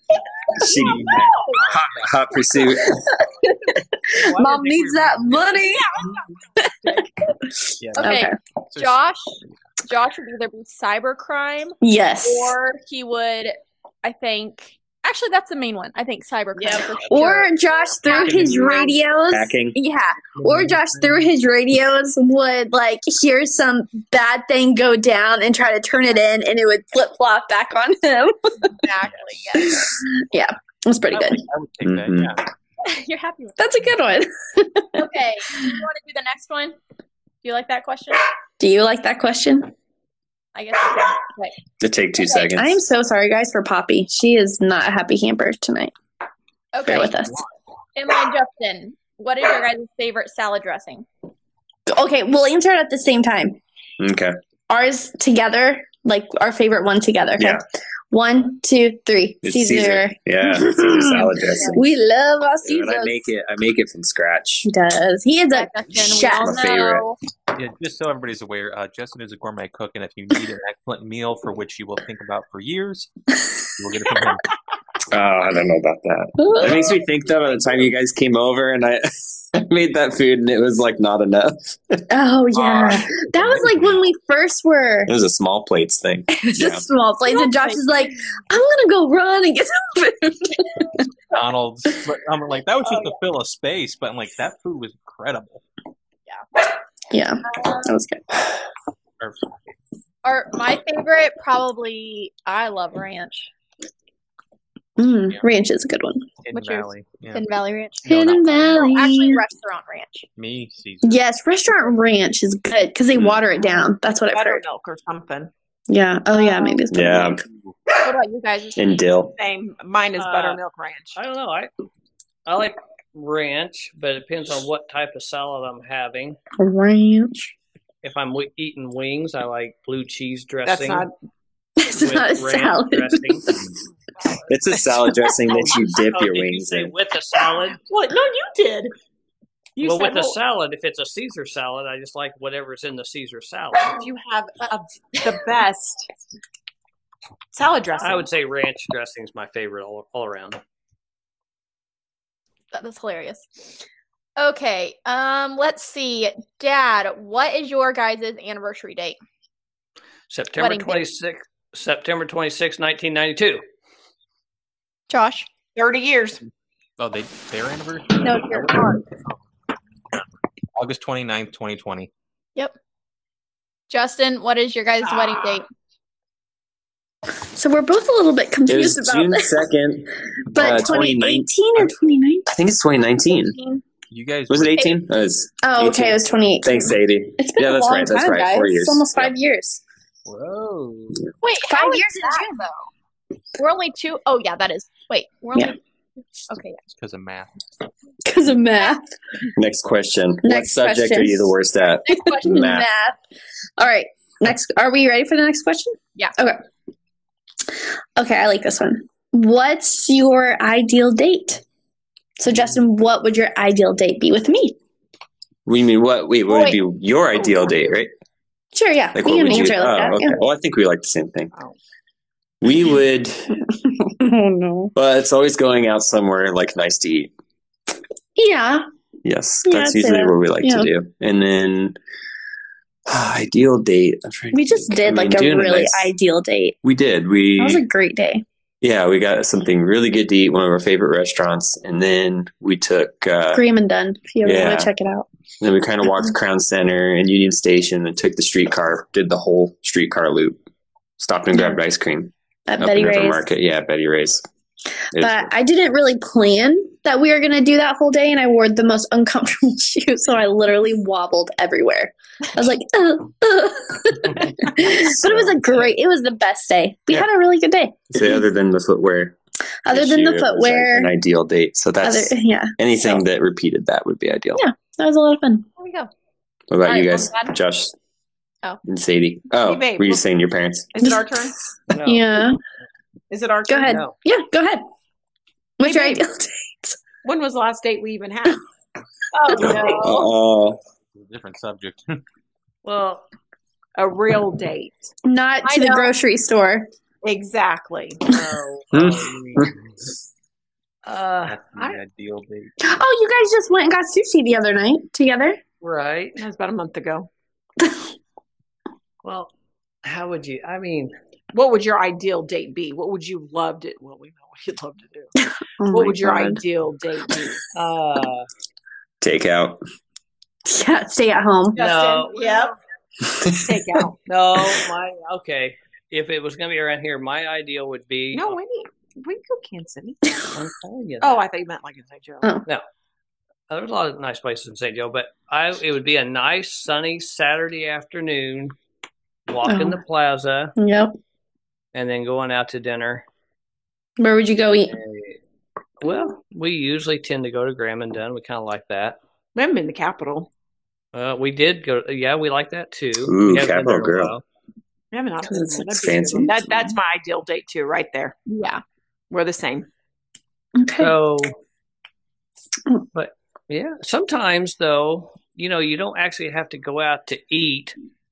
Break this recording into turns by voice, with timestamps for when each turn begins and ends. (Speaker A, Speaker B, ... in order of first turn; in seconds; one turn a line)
Speaker A: 0.5-3.1
Speaker B: 0.7-1.6
Speaker C: 0.7-2.1
Speaker D: 2.6-6.1
Speaker E: 4.1-5.6
Speaker B: 5.7-7.2
Speaker D: 6.6-8.4
Speaker C: 7.8-9.0
Speaker F: 8.0-18.9
Speaker D: 11.8-12.6
Speaker B: 16.6-17.2
Speaker D: 17.1-28.7
Speaker C: 17.4-18.7
Speaker A: 18.4-19.8
Speaker C: 20.4-21.3
Speaker F: 28.6-29.9
Speaker C: 29.0-29.6
Speaker D: 29.6-31.4
Speaker C: 31.1-32.5
Speaker A: 31.8-32.3
Speaker F: 32.8-33.7
Speaker D: 33.6-35.1
Speaker F: 35.0-36.8
Speaker F: 37.4-38.2
Speaker D: 38.6-39.7
Speaker F: 40.5-41.6
Speaker A: 41.8-42.8
Speaker D: 42.5-45.9
Speaker F: 46.7-47.3
Speaker D: 46.9-47.4
Speaker F: 48.0-51.1
Speaker D: 51.9-53.6
Speaker A: 54.0-54.4
Speaker D: 54.7-63.2
Speaker A: 59.4-61.8
Speaker F: 61.5-61.8
Speaker A: 62.6-64.7
Speaker D: 64.6-66.7
Speaker F: 65.5-67.2
Speaker A: 66.3-67.0
Speaker C: 67.5-73.1
Speaker C: 73.6-74.5
Speaker A: 75.1-82.0
Speaker D: 76.4-77.0
Speaker D: 82.1-85.1
Speaker C: 82.5-84.0
Speaker A: 85.1-86.8
Speaker D: 86.4-91.0
Speaker F: 87.4-87.9
Speaker C: 91.3-95.6
Speaker D: 97.1-98.5
Speaker F: 97.5-97.9
Speaker C: 99.2-99.5
Speaker F: 100.2-103.5
Speaker D: 105.0-106.3
Speaker C: 106.5-107.5
Speaker F: 106.5-110.2
Speaker D: 108.1-109.4
Speaker C: 108.1-108.8
Speaker C: 110.4-111.2
Speaker D: 111.0-114.6
Speaker B: 114.3-115.5
Speaker D: 115.9-117.4
Speaker F: 116.3-116.9
Speaker A: 116.9-117.5
Speaker F: 118.0-119.0
Speaker A: 118.8-119.4
Speaker B: 119.3-121.2
Speaker E: 120.2-120.6
Speaker E: 121.1-121.7
Speaker E: 122.5-126.4
Speaker D: 126.6-127.5
Speaker E: 128.0-131.1
Speaker B: 130.6-131.1
Speaker D: 131.8-133.6
Speaker E: 131.9-133.5
Speaker B: 134.2-134.6
Speaker A: 134.5-136.9
Speaker E: 135.5-137.8
Speaker B: 137.9-138.9
Speaker B: 139.8-140.4
Speaker E: 139.8-143.9
Speaker B: 143.8-146.1
Speaker B: 147.5-148.3
Speaker E: 148.0-150.6
Speaker F: 152.7-153.8
Speaker F: 154.4-159.2
Speaker E: 160.3-163.6
Speaker F: 160.6-161.1
Speaker F: 165.1-165.5
Speaker B: 165.8-166.4
Speaker C: 167.0-169.3
Speaker F: 168.2-169.1
Speaker C: 170.8-172.1
Speaker F: 173.9-175.7
Speaker B: 175.0-175.6
Speaker D: 177.5-179.6
Speaker A: 178.7-181.9
Speaker D: 180.5-182.5
Speaker A: 182.5-183.6
Speaker C: 184.1-184.9
Speaker A: 184.5-189.3
Speaker D: 185.6-189.8
Speaker E: 190.3-191.2
Speaker F: 191.4-192.8
Speaker D: 191.6-192.6
Speaker F: 193.6-195.8
Speaker F: 196.5-196.8
Speaker C: 196.9-197.6
Speaker D: 198.2-199.1
Speaker A: 199.6-202.9
Speaker D: 200.4-201.6
Speaker F: 202.1-202.7
Speaker D: 202.3-203.2
Speaker D: 203.8-206.6
Speaker D: 208.2-211.6
Speaker D: 212.4-214.8
Speaker A: 215.7-218.1
Speaker F: 216.5-216.8
Speaker B: 217.3-218.0
Speaker D: 218.7-220.4
Speaker A: 219.1-221.5
Speaker A: 222.6-223.6
Speaker D: 223.7-224.9
Speaker A: 224.9-227.3
Speaker D: 228.4-228.8
Speaker A: 229.2-232.0
Speaker D: 229.7-230.9
Speaker A: 233.1-236.1
Speaker D: 234.5-236.8
Speaker A: 236.8-237.8
Speaker D: 237.6-238.4
Speaker A: 238.8-243.6
Speaker D: 243.5-245.3
Speaker A: 244.4-244.9
Speaker A: 245.6-250.6
Speaker A: 251.2-254.4
Speaker D: 251.5-251.8
Speaker D: 252.7-253.4
Speaker A: 255.1-255.5
Speaker D: 255.1-268.4
Speaker A: 264.8-265.6
Speaker A: 268.1-269.4
Speaker D: 269.9-271.1
Speaker A: 269.9-274.6
Speaker D: 272.0-273.2
Speaker D: 274.6-275.7
Speaker F: 275.8-276.1
Speaker A: 276.7-277.9
Speaker F: 276.8-277.5
Speaker A: 278.9-280.9
Speaker B: 279.6-280.2
Speaker B: 280.9-281.6
Speaker E: 281.9-282.2
Speaker D: 282.1-282.6
Speaker B: 283.3-284.1
Speaker D: 283.7-284.8
Speaker E: 283.9-284.1
Speaker D: 285.8-287.0
Speaker B: 285.8-286.2
Speaker B: 287.2-288.6
Speaker F: 289.4-290.3
Speaker B: 289.5-289.9
Speaker A: 289.6-290.8
Speaker C: 291.1-292.2
Speaker E: 292.8-293.3
Speaker B: 293.9-295.1
Speaker D: 295.2-296.9
Speaker F: 295.6-296.1
Speaker B: 297.2-298.2
Speaker E: 298.3-299.7
Speaker A: 298.9-299.7
Speaker E: 301.1-302.0
Speaker C: 301.4-302.7
Speaker D: 302.8-305.6
Speaker E: 305.8-306.4
Speaker B: 306.4-307.3
Speaker D: 307.8-308.1
Speaker E: 309.2-309.5
Speaker E: 310.0-311.1
Speaker B: 311.5-315.3
Speaker D: 315.4-316.6
Speaker B: 315.9-317.6
Speaker E: 317.7-318.5
Speaker A: 319.2-319.8
Speaker D: 320.6-321.8
Speaker B: 321.7-322.8
Speaker E: 321.8-322.3
Speaker A: 323.3-323.8
Speaker B: 323.5-324.2
Speaker E: 324.3-328.6
Speaker B: 328.3-330.5
Speaker E: 330.5-331.4
Speaker B: 331.2-332.5
Speaker E: 333.7-338.8
Speaker E: 339.5-340.7
Speaker D: 339.6-340.0
Speaker D: 340.8-341.1
Speaker E: 341.9-343.2
Speaker D: 344.2-344.9
Speaker E: 344.9-345.4
Speaker E: 346.0-349.2
Speaker B: 349.6-350.5
Speaker E: 351.1-354.4
Speaker A: 353.3-354.4
Speaker B: 355.1-358.4
Speaker D: 355.4-356.5
Speaker A: 355.9-356.9
Speaker F: 358.5-358.8
Speaker B: 359.3-359.9
Speaker D: 360.8-361.1
Speaker E: 361.0-361.6
Speaker E: 363.1-367.9